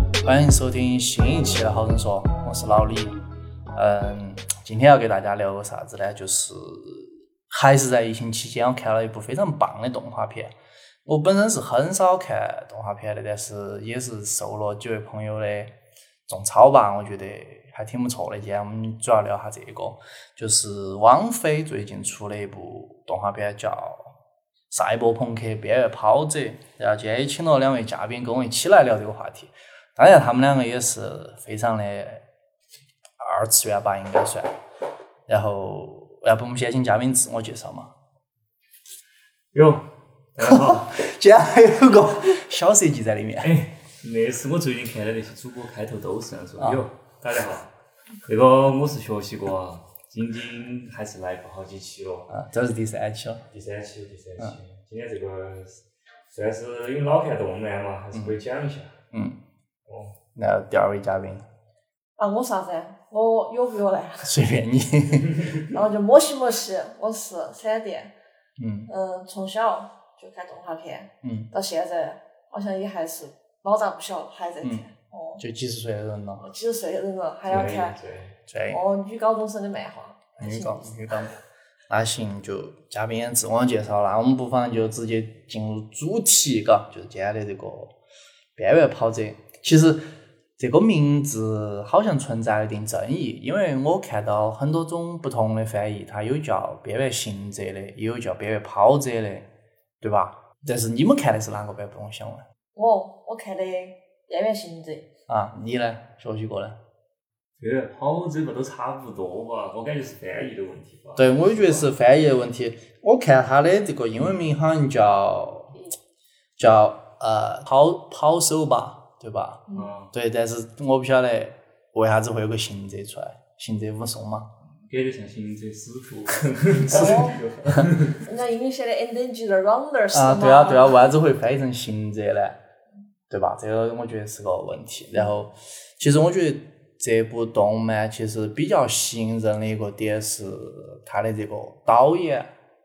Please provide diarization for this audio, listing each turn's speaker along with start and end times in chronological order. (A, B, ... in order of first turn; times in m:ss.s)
0:00.2-0:03.2 A
0:03.8-0:10.5 A
0:11.1-0:15.7 A
0:16.3-0:24.1 A
0:24.7-0:32.2 A
0:33.2-0:34.5 A
0:35.3-0:37.9 A
0:39.5-0:41.0 B
0:40.4-0:43.6 A
0:43.4-0:47.7 B
0:48.2-0:52.3 B
0:52.3-0:53.4 A
0:53.5-0:59.0 B
0:58.1-0:58.4 A
0:59.1-0:59.4 A
0:59.9-1:00.2 B
1:00.4-1:01.4 A
1:02.2-1:04.4 C
1:04.2-1:05.6 A
1:05.7-1:08.1 C
1:08.6-1:08.9 A
1:08.9-1:15.4 C
1:11.2-1:11.5 A
1:15.4-1:16.4 A
1:16.4-1:18.0 C
1:17.5-1:18.4 B
1:18.5-1:18.8 A
1:18.7-1:20.9 C
1:20.4-1:21.4 A
1:21.9-1:27.9 A
1:28.6-1:30.0 A
1:30.6-1:39.5 A
1:40.0-1:42.4 A
1:42.8-1:45.1 C
1:45.3-1:46.8 A
1:47.6-1:51.9 B
1:51.2-1:55.8 A
1:56.6-2:04.5 A
1:59.7-2:00.1 B
2:04.8-2:08.2 B
2:06.9-2:07.9 A
2:06.9-2:07.4 C
2:08.2-2:11.0 C
2:10.1-2:12.6 A
2:13.3-2:22.5 A